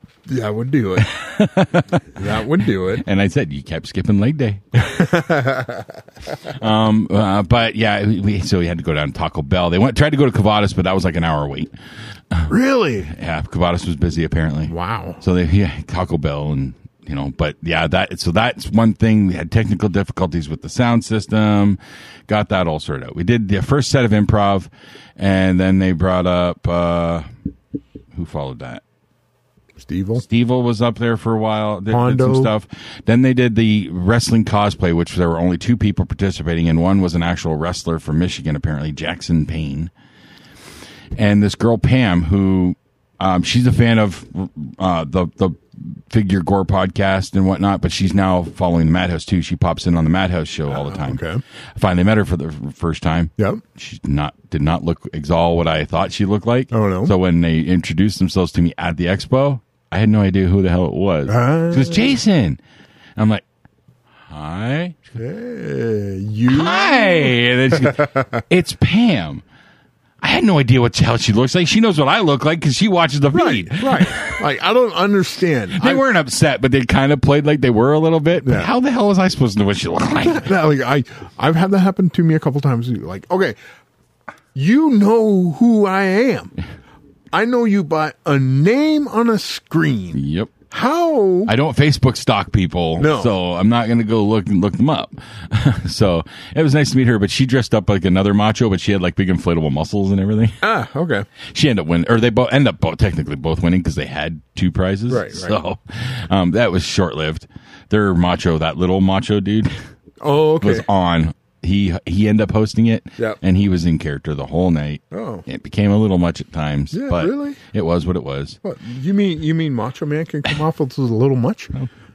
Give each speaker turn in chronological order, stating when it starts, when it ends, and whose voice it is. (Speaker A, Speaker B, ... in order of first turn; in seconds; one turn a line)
Speaker A: 0.3-1.1
Speaker B: 1.0-2.0
Speaker A: 2.1-3.0
Speaker B: 2.8-4.8
Speaker A: 4.8-5.9
Speaker B: 6.5-11.7
Speaker A: 12.5-13.1
Speaker B: 13.1-27.3
Speaker A: 14.7-15.2
Speaker B: 28.1-28.8
Speaker A: 29.8-30.2
Speaker B: 30.2-39.9
Speaker A: 31.9-32.5
Speaker B: 41.1-51.2
Speaker A: 50.7-51.4
Speaker B: 51.8-62.6
Speaker A: 56.7-57.1
Speaker A: 61.3-62.1
Speaker B: 63.1-63.4
Speaker B: 64.3-65.0
Speaker A: 65.2-67.4
Speaker B: 66.5-69.4
Speaker A: 67.9-68.4
Speaker B: 70.2-74.4
Speaker A: 73.3-76.0
Speaker B: 75.7-80.5
Speaker A: 78.4-78.7
Speaker A: 80.1-83.5
Speaker A: 84.5-86.5
Speaker A: 87.3-91.5
Speaker B: 90.1-90.5
Speaker B: 91.5-100.6
Speaker A: 93.0-93.3
Speaker A: 100.6-101.2
Speaker B: 101.4-109.8
Speaker A: 105.1-105.6
Speaker A: 110.2-110.8
Speaker B: 110.6-118.6
Speaker A: 115.1-115.4
Speaker A: 116.9-117.6
Speaker A: 118.6-121.7